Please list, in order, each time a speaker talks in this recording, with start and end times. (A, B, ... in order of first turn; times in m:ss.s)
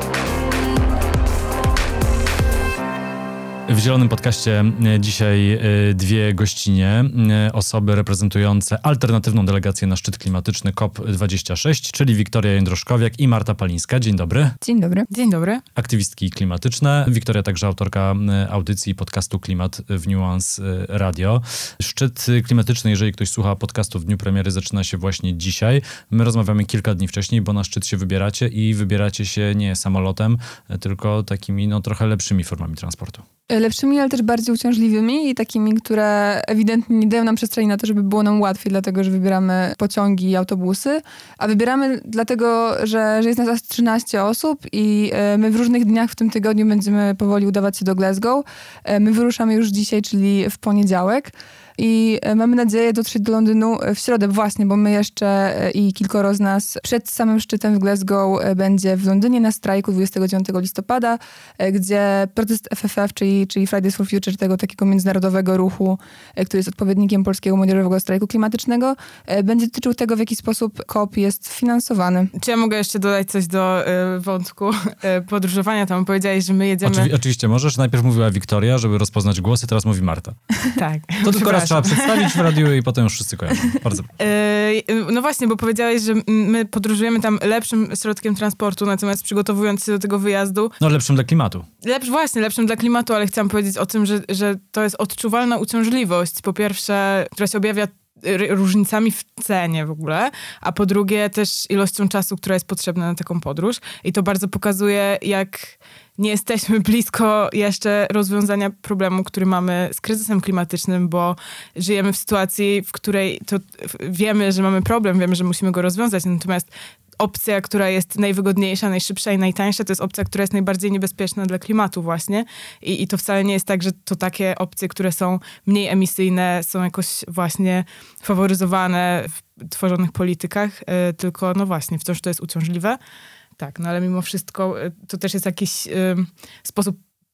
0:03.7-0:14.6 A
0:14.6-0:15.1 B
0:15.1-0:15.6 C
0:15.8-0:33.2 A
0:33.5-1:12.3 B
1:12.4-1:17.1 C
1:16.8-1:20.4 A
1:20.8-1:22.6 C
1:21.2-1:24.1 A
1:24.2-1:30.8 C
1:30.8-1:31.7 A
1:31.8-2:13.0 C
2:13.6-2:17.0 C